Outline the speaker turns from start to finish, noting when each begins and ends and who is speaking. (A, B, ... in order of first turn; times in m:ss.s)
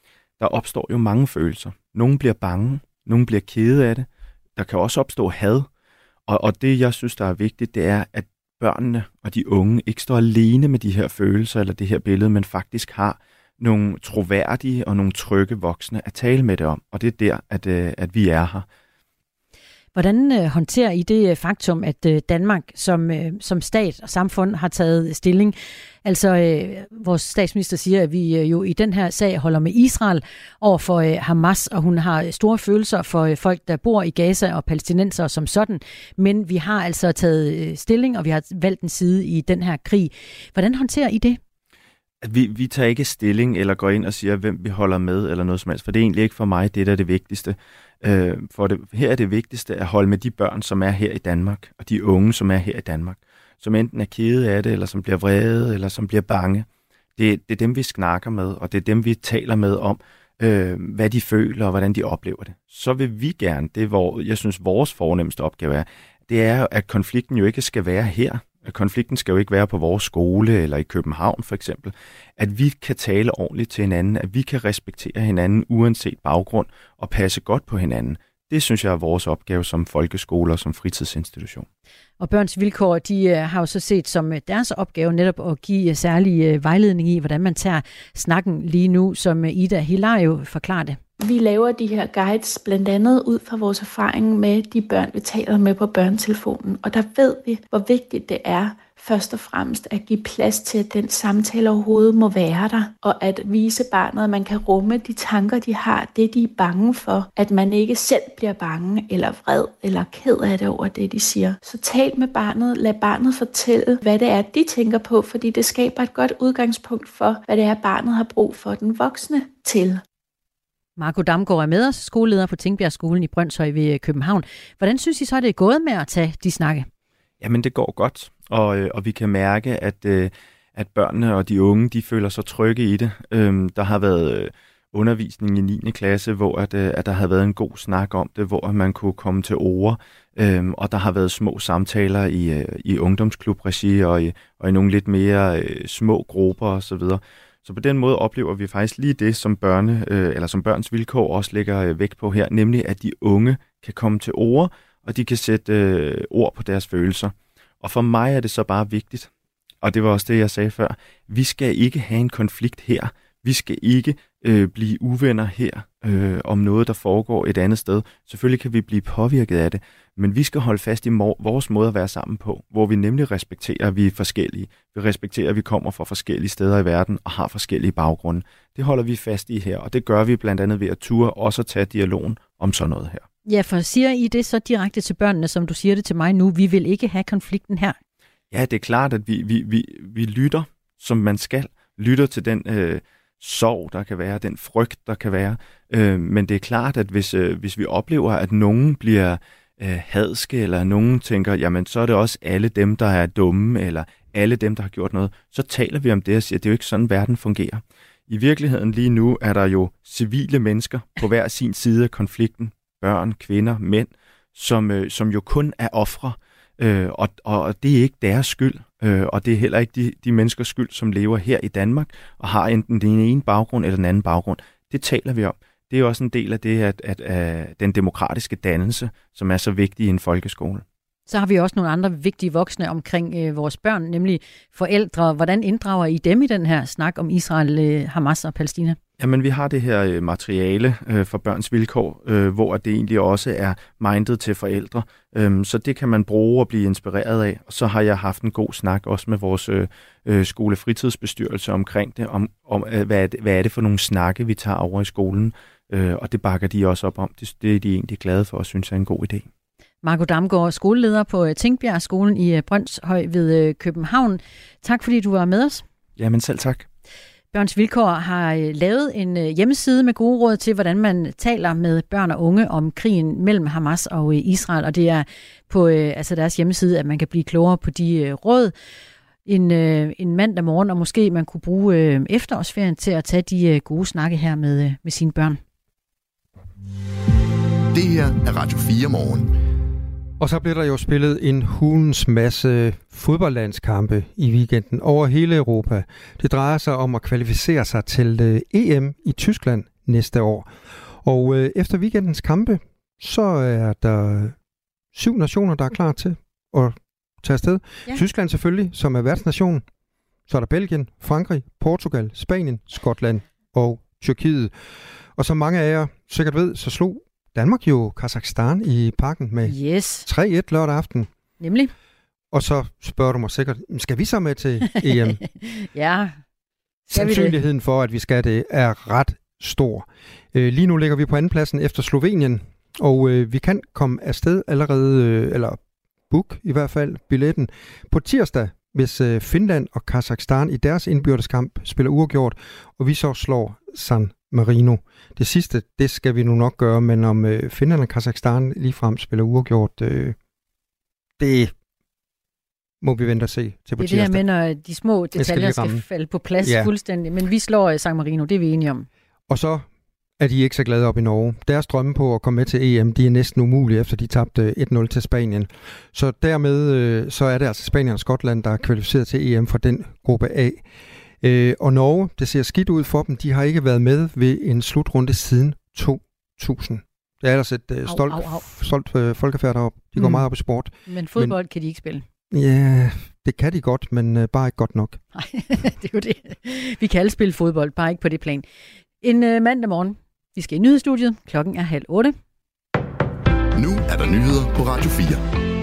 0:00.4-0:05.7 A
0:06.3-0:18.7 A
0:20.0-0:41.4 B
0:42.2-1:21.7 A
1:22.2-1:31.0 B
1:31.2-2:00.0 C
2:01.0-2:06.9 B
2:07.4-2:39.3 A
2:39.8-3:03.2 A
3:03.5-3:08.0 B
3:08.5-3:50.8 A
3:51.3-3:59.0 B
3:59.2-4:19.5 A
4:20.0-4:25.8 B
4:26.2-4:26.9 A
4:27.5-4:38.7 B
4:39.5-4:45.6 B
4:47.9-4:49.5 D
4:50.4-5:00.7 E
5:01.2-5:04.6 E
5:05.1-5:09.8 E
5:10.5-5:14.7 E
5:15.4-5:21.3 E
5:19.7-5:20.3 B
5:21.6-5:21.9 B
5:22.5-5:25.4 E
5:25.1-5:26.4 B
5:27.1-5:50.4 E
5:27.1-5:27.6 B
5:51.4-5:51.7 E
5:53.0-5:54.4 E
5:54.0-5:59.1 B
5:55.3-5:56.0 E
5:56.6-5:56.9 E
5:59.5-5:59.8 E
6:00.4-6:10.8 E
6:11.4-6:21.6 E
6:18.1-6:18.6 B
6:20.2-6:20.5 B
6:21.1-6:22.2 B
6:22.5-6:25.2 E
6:25.4-6:28.7 B
6:29.2-6:32.4 B
6:33.8-6:35.4 D